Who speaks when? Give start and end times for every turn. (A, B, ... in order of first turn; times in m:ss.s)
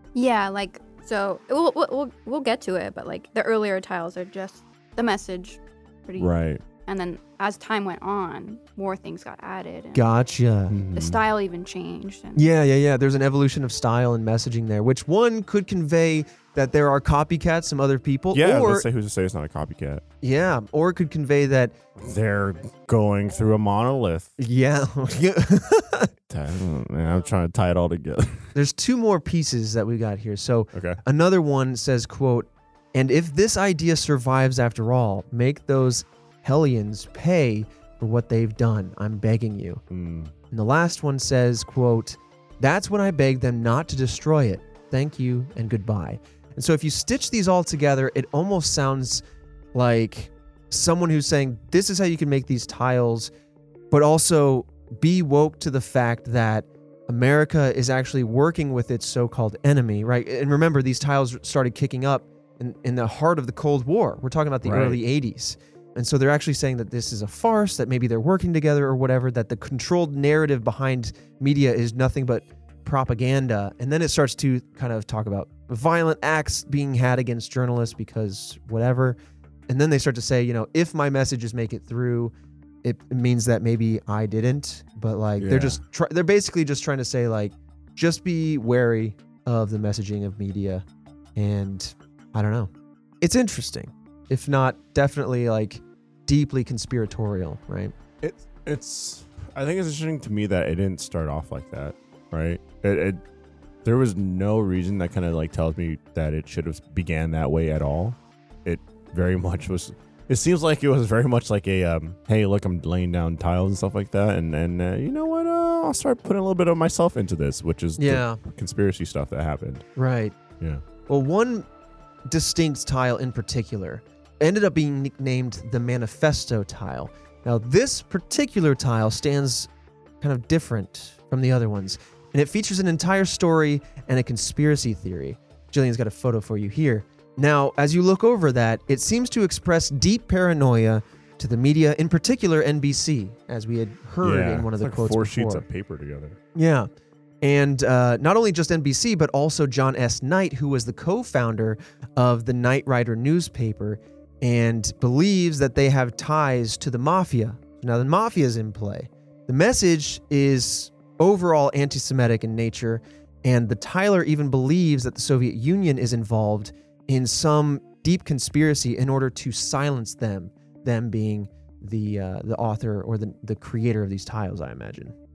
0:00.2-0:06.3 A
0:06.2-0:06.6 B
0:06.8-0:10.1 A
0:09.9-0:10.8 C
0:10.7-0:11.2 B
0:10.9-0:12.4 A
0:12.4-0:18.9 C
0:18.3-0:20.0 B
0:20.2-0:21.8 C
0:22.0-0:24.3 B
0:24.4-0:26.1 C
0:26.3-0:28.5 B
0:28.5-0:39.8 C
0:30.7-0:31.0 B
0:39.9-0:40.3 B
0:40.5-0:53.3 C
0:53.9-1:19.2 C
1:04.6-1:05.0 B
1:19.7-1:22.3 C
1:22.8-1:30.8 C
1:25.4-1:25.8 B
1:31.4-1:32.7 C
1:33.2-1:38.0 C
1:38.2-1:43.2 B
1:43.8-1:59.8 B
1:58.0-1:58.4 C
2:00.0-2:00.4 C
2:01.1-2:01.7 C
2:02.3-2:09.7 C
2:10.2-2:25.6 C
2:24.2-2:26.4 B
2:26.6-2:26.9 C
2:27.4-2:55.1 C